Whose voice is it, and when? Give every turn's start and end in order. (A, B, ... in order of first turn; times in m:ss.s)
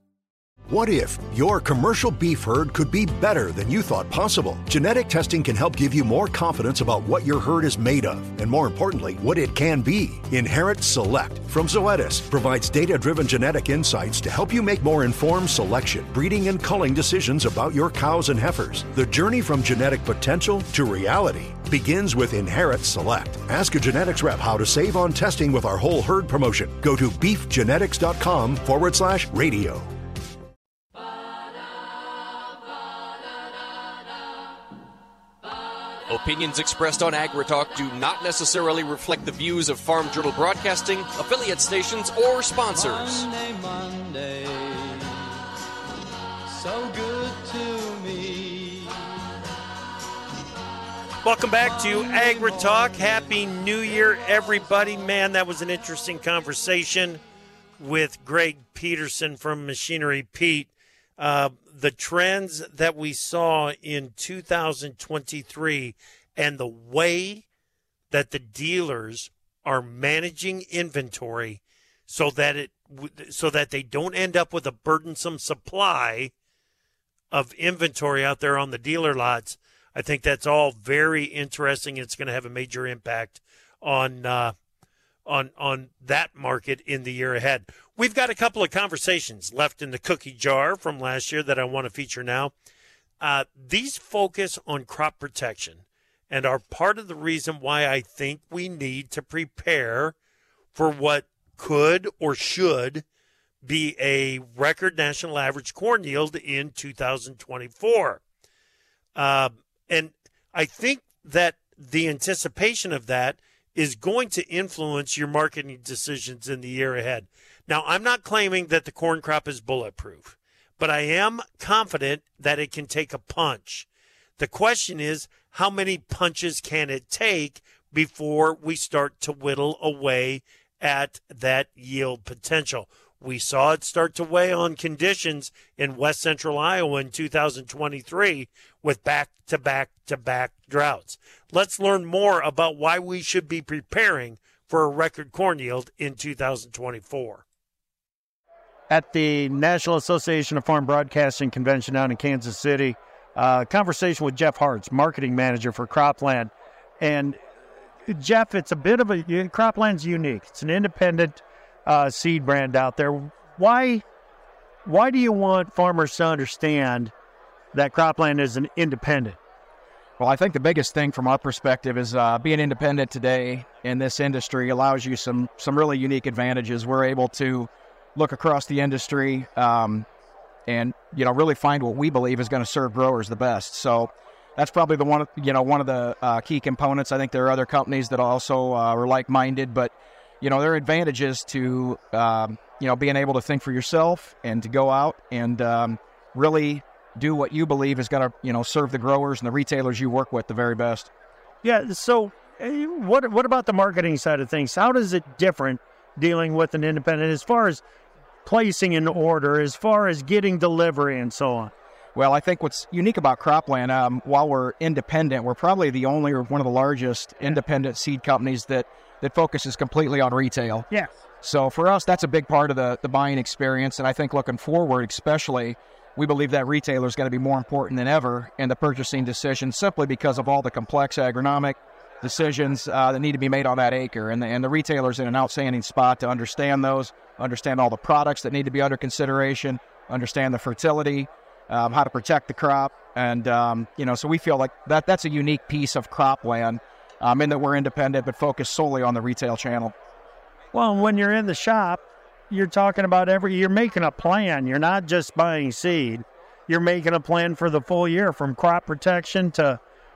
0:00.7-0:29.9 A
0:36.1-0:43.3 B
0:42.7-0:45.2 C
0:46.5-0:49.0 C
0:51.2-0:57.2 D
0:51.6-0:53.3 C
0:57.8-1:07.4 D
1:08.1-1:16.3 D
1:17.3-1:24.5 D
1:25.3-1:32.5 D
1:33.2-1:40.2 D
1:40.8-1:43.0 D
1:43.6-1:48.2 D
1:49.2-2:03.9 D
2:04.4-2:27.4 D
2:28.9-2:37.4 E
2:38.1-2:44.0 E
2:44.8-2:47.1 E
2:47.7-2:49.4 E
2:50.2-3:00.1 F
3:00.7-3:21.1 F
3:21.6-3:27.8 E
3:28.4-3:31.7 E
3:32.2-3:40.9 F
3:41.4-4:09.9 F
4:10.7-4:19.8 E